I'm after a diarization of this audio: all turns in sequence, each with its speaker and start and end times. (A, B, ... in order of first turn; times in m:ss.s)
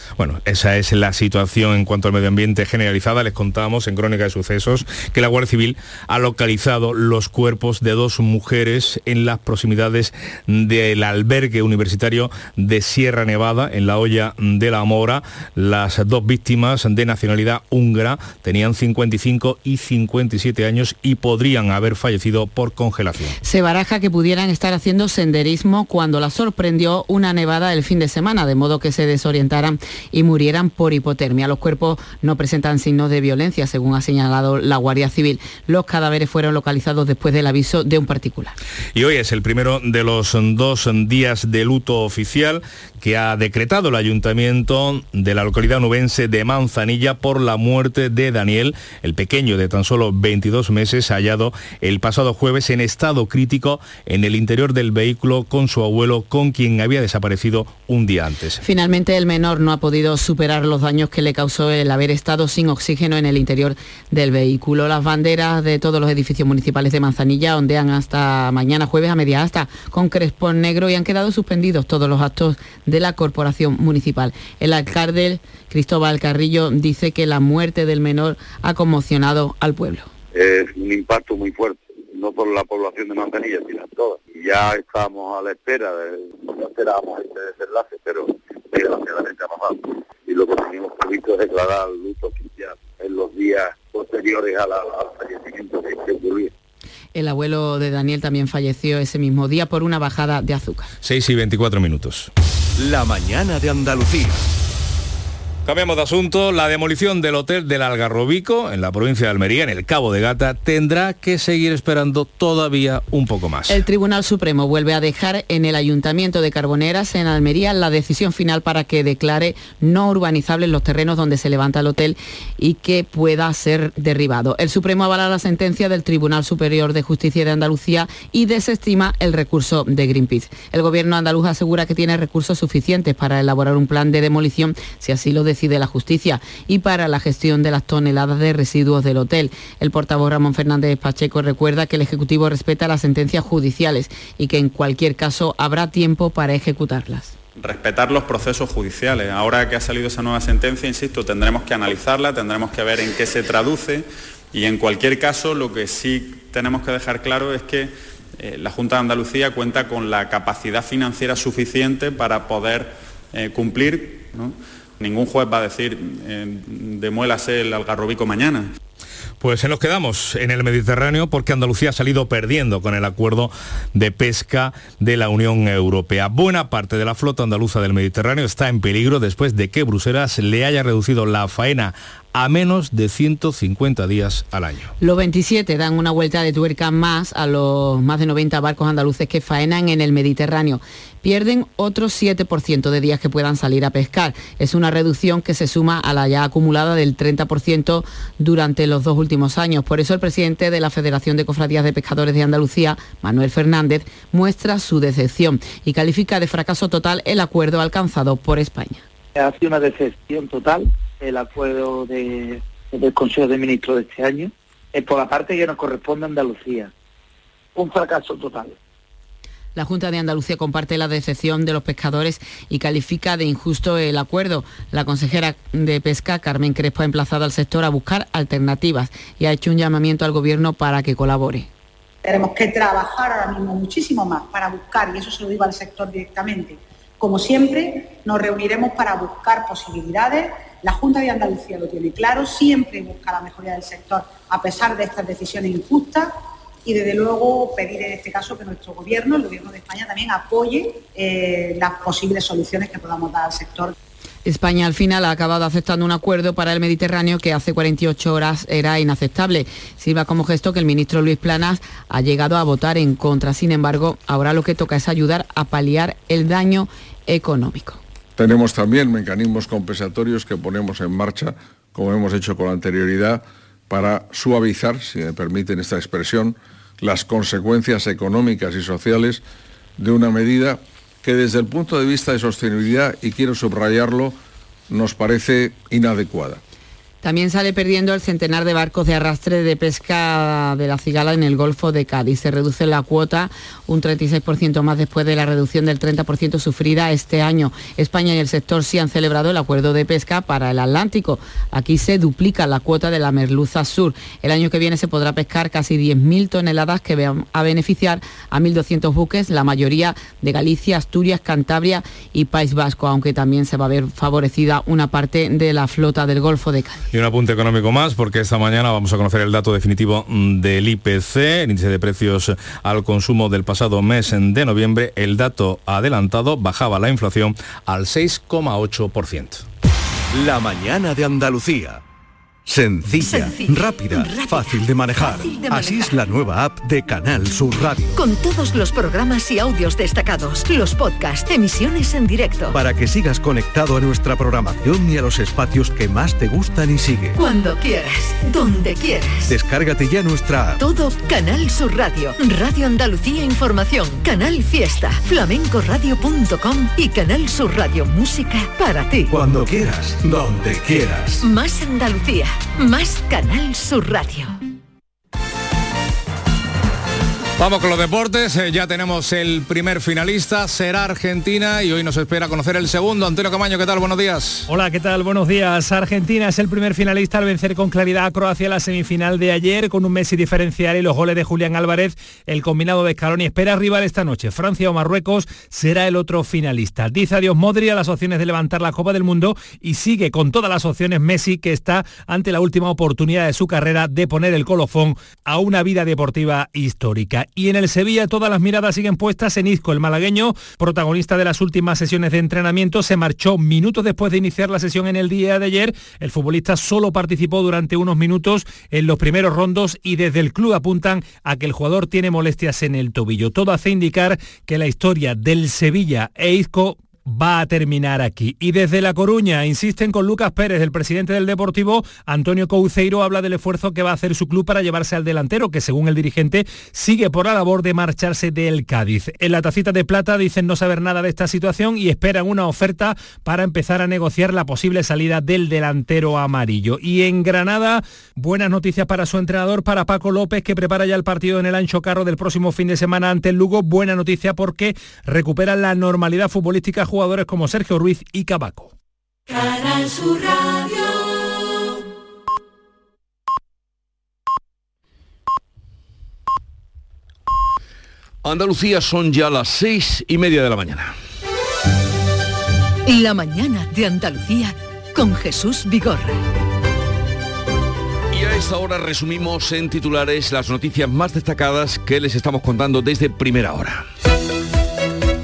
0:00.2-0:23.4 A
0:23.4-0:38.6 B
0:39.0-0:58.6 A
0:58.6-1:20.1 B
1:20.3-1:36.5 C
1:37.2-1:40.9 B
1:41.0-1:42.3 A
1:42.8-1:44.4 D
1:45.7-1:53.8 A
1:53.7-2:27.3 B
2:27.6-2:48.7 E
2:49.4-3:04.9 A
3:05.0-3:29.0 B
3:29.4-3:36.9 F
3:37.8-3:38.8 F
3:39.8-3:51.7 B
3:52.2-4:06.3 G
4:06.8-4:13.9 G
4:14.4-4:28.0 B
4:28.4-4:39.4 H
4:40.0-4:44.4 H
4:44.9-4:46.6 H
4:47.2-5:17.0 B
5:17.1-5:29.6 A
5:30.3-5:32.0 D
5:32.7-5:38.1 D
5:33.1-5:36.1 I
5:38.2-5:42.8 I
5:42.7-5:47.4 D
5:47.4-5:49.6 I
5:49.5-5:50.8 D
5:50.8-5:59.4 I
5:59.3-6:01.4 D
6:01.4-6:04.6 I
6:07.6-6:14.7 A
6:14.7-7:28.9 J
7:29.9-7:30.3 I
7:38.4-7:41.1 K
7:43.1-7:46.4 I
7:48.3-7:54.0 K